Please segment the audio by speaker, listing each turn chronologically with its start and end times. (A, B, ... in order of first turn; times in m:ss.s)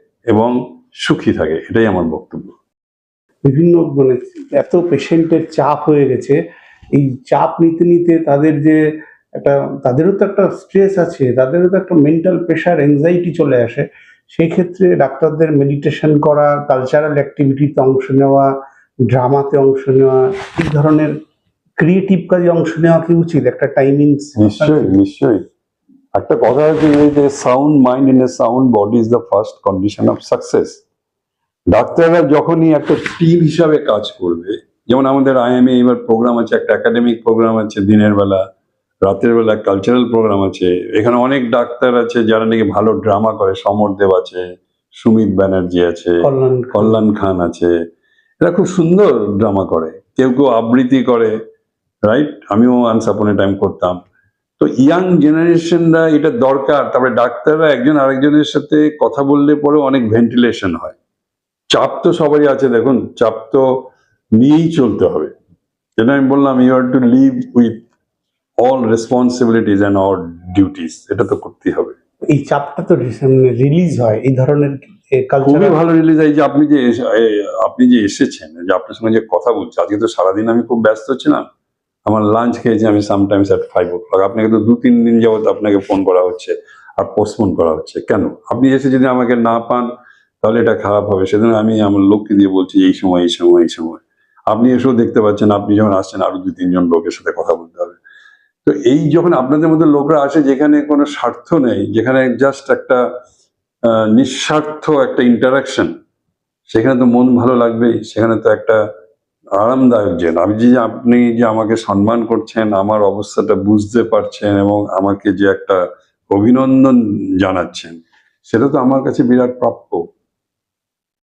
0:00.3-0:02.6 A
0:03.4-0:06.4 B
0:06.9-0:08.8 B
0:09.4-0:18.5 B
0:19.1-0:21.1 B
0:21.8-0:25.0 B
0:24.4-0:25.4 A
0:26.1-0:30.8 A
0:31.7-0:38.4 A
0:39.0-0:47.7 A
0:46.2-0:47.0 B
0:48.4-0:51.3 A
0:52.0-0:54.0 A
0:54.6-1:01.0 A
1:01.7-1:05.3 A
1:06.0-1:07.8 A
1:08.6-1:12.0 A
1:12.3-1:15.8 B
1:15.4-1:21.4 A
1:22.0-1:29.9 A
1:30.4-1:38.0 A
1:38.6-1:43.0 A
1:43.9-1:46.0 A
1:46.7-1:48.8 A
1:49.6-2:00.0 A